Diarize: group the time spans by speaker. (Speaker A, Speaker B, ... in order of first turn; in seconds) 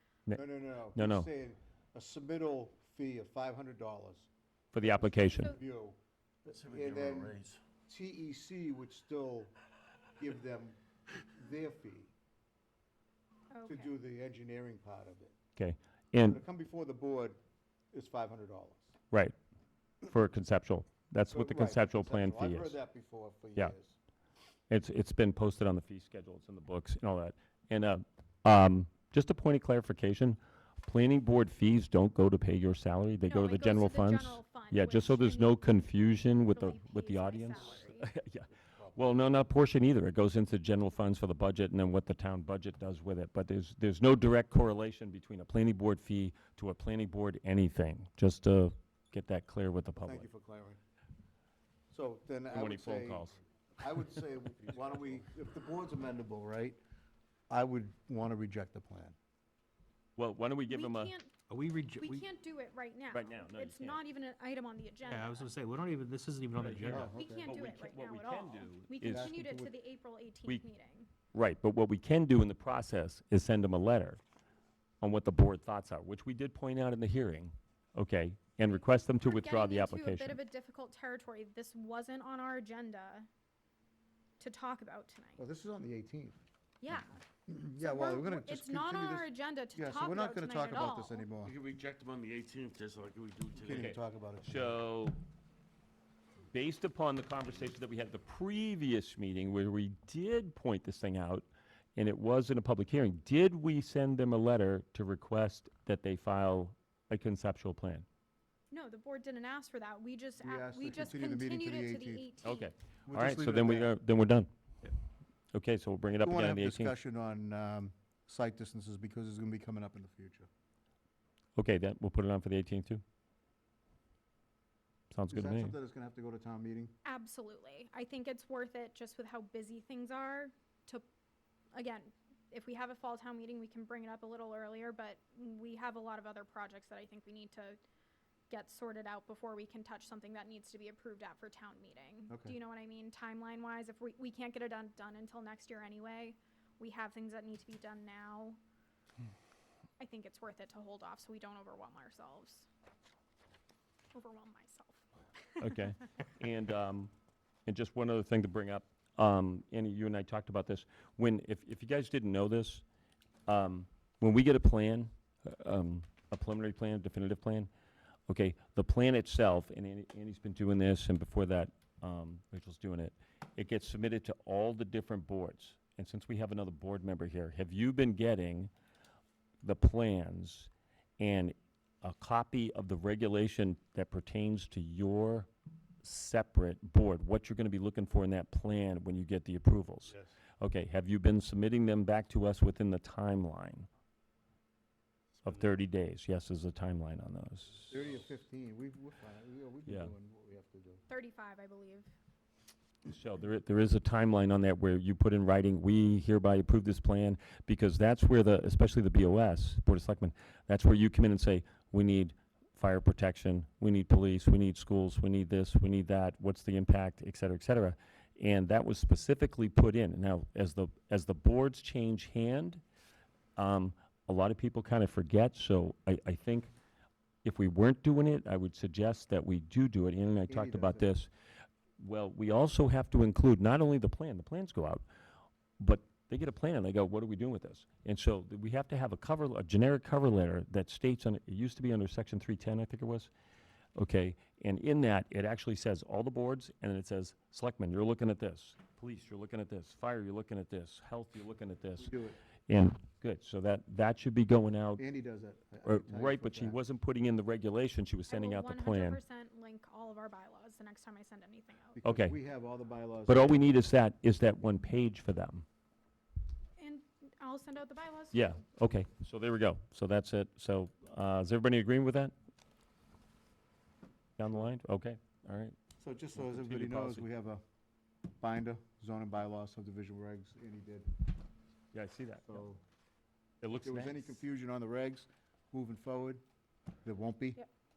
Speaker A: 0.3-6.0, 6.5-9.5, 10.2-12.1, 13.7-15.3, 16.2-17.4, 17.9-18.9, 21.3-24.0, 38.5-39.1, 50.0-50.8, 51.9-56.8, 57.5-59.2, 66.8-67.5, 69.0-69.7, 85.4-86.4, 87.5-91.6, 93.6-94.7, 110.4-112.3, 113.1-114.0, 116.2-120.5, 125.3-126.9, 142.3-142.6, 197.9-201.0, 230.5-231.2, 252.0-252.4, 255.0-256.8, 261.9-263.7, 276.0-277.6, 278.4-281.1, 282.5-282.8, 283.8-286.4, 287.0-287.6
Speaker B: 0.9-1.3, 4.7-5.6, 15.6-16.4, 20.0-22.8, 24.7-50.3, 52.5-53.4, 60.2-61.1, 63.1-64.0, 66.6-69.3, 71.3-74.2, 75.0-80.4, 93.7-95.2, 96.5-108.1, 112.4-114.5, 115.5-116.9, 121.6-123.0, 125.1-125.8, 155.6-157.1, 157.7-162.8, 163.5-167.7, 168.3-178.7, 179.6-185.5, 186.0-193.9, 195.4-197.9, 199.9-200.1, 203.1-222.8, 223.6-226.7, 227.4-231.3, 232.0-235.0, 235.8-243.3, 244.0-252.1, 252.7-255.0, 255.8-259.2, 262.0-262.4, 263.3-265.7, 268.3-272.3, 274.4-275.8, 276.4-277.2, 281.9-282.6, 283.6-284.4
Speaker C: 6.5-7.6, 91.4-93.9
Speaker D: 13.5-13.9, 33.3-38.1, 60.7-61.4, 62.0-65.5, 67.0-71.1, 79.1-83.3, 84.4-85.4, 86.8-87.2, 87.8-91.3, 108.7-112.7, 127.0-131.1, 131.7-137.8, 138.5-148.6, 150.0-152.7, 154.1-155.8, 201.1-202.1, 258.3-262.0, 266.8-268.6
Speaker E: 61.5-62.3, 65.1-67.1